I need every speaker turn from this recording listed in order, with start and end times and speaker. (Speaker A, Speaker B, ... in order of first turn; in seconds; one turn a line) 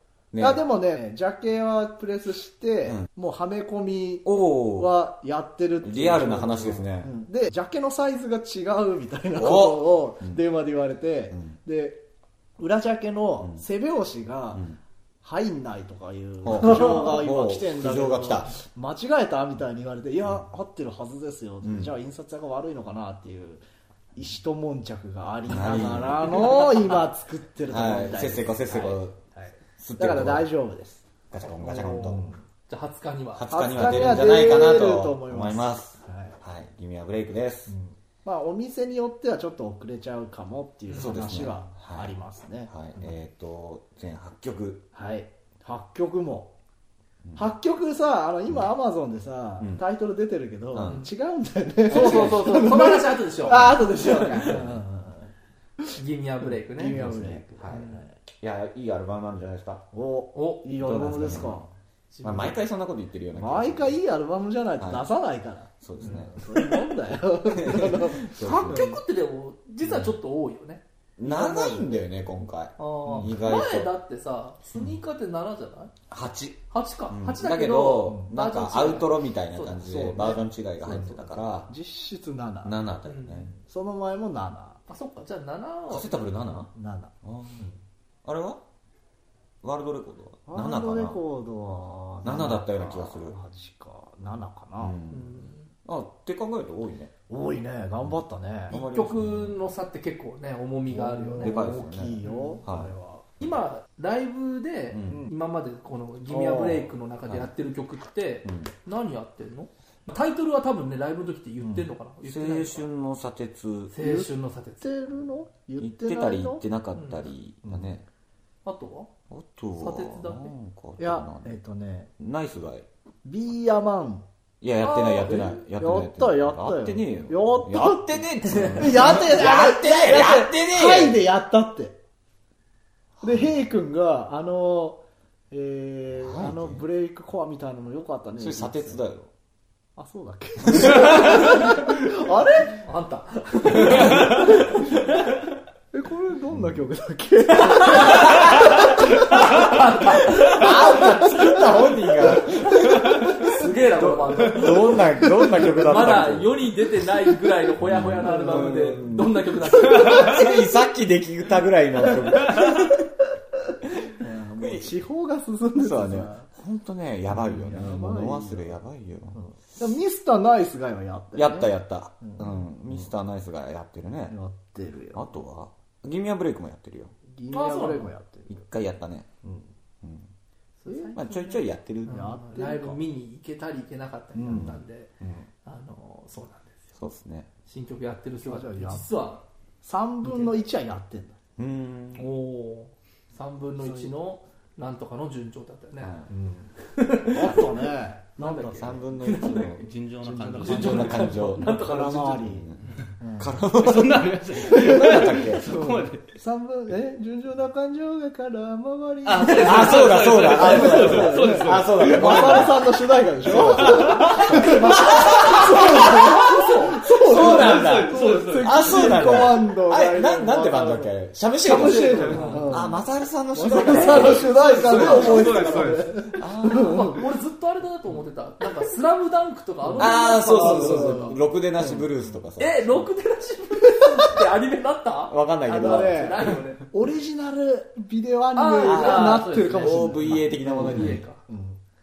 Speaker A: 0.3-0.6
Speaker B: 0.4-12.1
Speaker A: 4.2-4.9
Speaker A: 5.8-7.1
Speaker A: 9.4-10.4
Speaker B: 12.6-14.7
Speaker B: 15.2-23.6
Speaker A: 16.4-18.6
Speaker A: 21.6-21.9
Speaker B: 24.1-31.1
Speaker A: 25.5-27.0
Speaker A: 27.7-29.2
Speaker A: 29.8-30.5
Speaker A: 31.3-32.3
Speaker B: 31.6-32.4
Speaker C: 31.7-32.2
Speaker C: 32.7-33.5
Speaker A: 33.4-37.7
Speaker B: 33.5-36.4
Speaker B: 37.7-43.2
Speaker C: 40.9-41.2
Speaker A: 40.9-42.1
Speaker A: 42.7-44.9
Speaker B: 44.9-46.5
Speaker B: 47.4-55.3
Speaker A: 50.7-51.0
Speaker C: 50.9-51.1
Speaker A: 51.9-52.7
Speaker C: 51.9-54.6
Speaker A: 53.5-53.8
Speaker A: 54.4-54.8
Speaker C: 56.0-57.1
Speaker B: 56.8-58.2
Speaker A: 56.9-57.9
Speaker C: 57.6-58.1
Speaker A: 58.4-59.8
Speaker B: 59.9-61.7
Speaker C: 60.3-60.7
Speaker A: 60.8-61.7
Speaker C: 62.1-62.6
Speaker A: 62.2-64.0
Speaker B: 63.4-69.0
Speaker A: 64.8-65.1
Speaker A: 65.8-69.0
Speaker C: 68.4-70.8
Speaker A: 71.2-73.9
Speaker B: 71.2-71.9
Speaker C: 72.8-75.9
Speaker B: 73.0-73.3
Speaker A: 76.1-81.7
Speaker C: 76.7-79.8
Speaker B: 79.8-82.8
Speaker A: 82.6-83.5
Speaker C: 83.1-83.5
Speaker B: 83.6-84.8
Speaker C: 84.9-86.2
Speaker A: 85.9-86.7
Speaker B: 86.8-87.8
Speaker A: 87.2-87.7
Speaker A: 88.2-88.6
Speaker A: 89.6-91.2
Speaker B: 90.5-95.0
Speaker A: 92.2-93.4
Speaker A: 94.8-97.1
Speaker C: 95.1-95.7
Speaker B: 97.3-98.8
Speaker A: 98.7-99.5
Speaker C: 98.7-102.6
Speaker B: 100.9-103.3
Speaker A: 101.4-102.9
Speaker C: 103.4-112.9
Speaker A: 104.9-105.3
Speaker B: 105.1-105.3
Speaker B: 106.3-106.9
Speaker A: 108.5-108.7
Speaker B: 111.6-111.9
Speaker A: 112.2-114.0
Speaker C: 113.9-114.9
Speaker B: 114.0-116.6
Speaker A: 115.8-118.0
Speaker C: 117.0-117.2
Speaker B: 117.7-118.0
Speaker C: 118.7-119.1
Speaker A: 119.3-121.5
Speaker C: 119.8-120.5
Speaker B: 121.0-122.1
Speaker A: 122.2-122.9
Speaker B: 123.2-124.3
Speaker A: 124.6-131.2
Speaker C: 124.8-125.6
Speaker B: 125.3-132.0
Speaker A: 133.2-133.5
Speaker B: 133.2-139.0
Speaker A: 136.1-136.8
Speaker A: 138.4-139.3
Speaker B: 140.0-142.8
Speaker A: 140.7-141.2
Speaker C: 142.8-145.3
Speaker B: 143.9-144.3
Speaker B: 145.9-149.8
Speaker A: 146.5-146.8
Speaker C: 147.9-148.6
Speaker C: 149.3-151.6
Speaker A: 150.1-156.7
Speaker C: 152.4-160.6
Speaker A: 157.8-163.1
Speaker B: 158.2-159.0
Speaker B: 164.1-166.5
Speaker A: 164.6-164.9
Speaker A: 165.8-169.4
Speaker B: 167.3-168.8
Speaker B: 169.3-171.7
Speaker A: 171.3-174.4
Speaker B: 172.2-172.5
Speaker B: 174.3-175.3
Speaker A: 175.1-177.1
Speaker B: 177.3-178.6
Speaker C: 177.5-178.1
Speaker A: 178.5-179.3
Speaker B: 179.4-179.7
Speaker A: 180.0-180.3
Speaker C: 180.8-185.1
Speaker B: 180.9-181.2
Speaker A: 181.2-182.3
Speaker B: 182.1-183.0
Speaker B: 184.3-185.5
Speaker A: 184.5-184.8
Speaker C: 185.7-186.9
Speaker A: 187.0-187.5
Speaker C: 187.7-189.4
Speaker B: 188.5-189.1
Speaker B: 189.8-191.4
Speaker C: 190.2-190.6
Speaker A: 191.6-192.3
Speaker C: 192.2-196.2
Speaker B: 193.8-194.1
Speaker A: 196.0-196.3
Speaker B: 196.3-196.7
Speaker C: 196.8-199.9
Speaker B: 197.3-199.1
Speaker A: 198.8-199.9
Speaker D: 199.8-201.4
Speaker B: 200.2-203.6
Speaker C: 200.5-202.5
Speaker A: 200.5-202.8
Speaker A: 203.4-205.7
Speaker D: 203.7-206.3
Speaker B: 205.0-223.0
Speaker D: 209.2-212.9
Speaker C: 209.4-211.3
Speaker A: 209.4-216.4
Speaker D: 213.5-215.4
Speaker C: 215.0-217.0
Speaker A: 217.1-225.8
Speaker D: 217.1-219.6
Speaker C: 221.7-222.8
Speaker D: 222.1-222.7
Speaker B: 223.5-227.2
Speaker D: 223.8-226.2
Speaker A: 226.3-227.2
Speaker C: 226.7-231.4
Speaker B: 229.9-232.1
Speaker A: 230.0-232.9
Speaker C: 232.6-236.8
Speaker A: 235.3-236.4
Speaker B: 235.7-241.8
Speaker C: 238.6-241.4
Speaker A: 238.8-241.2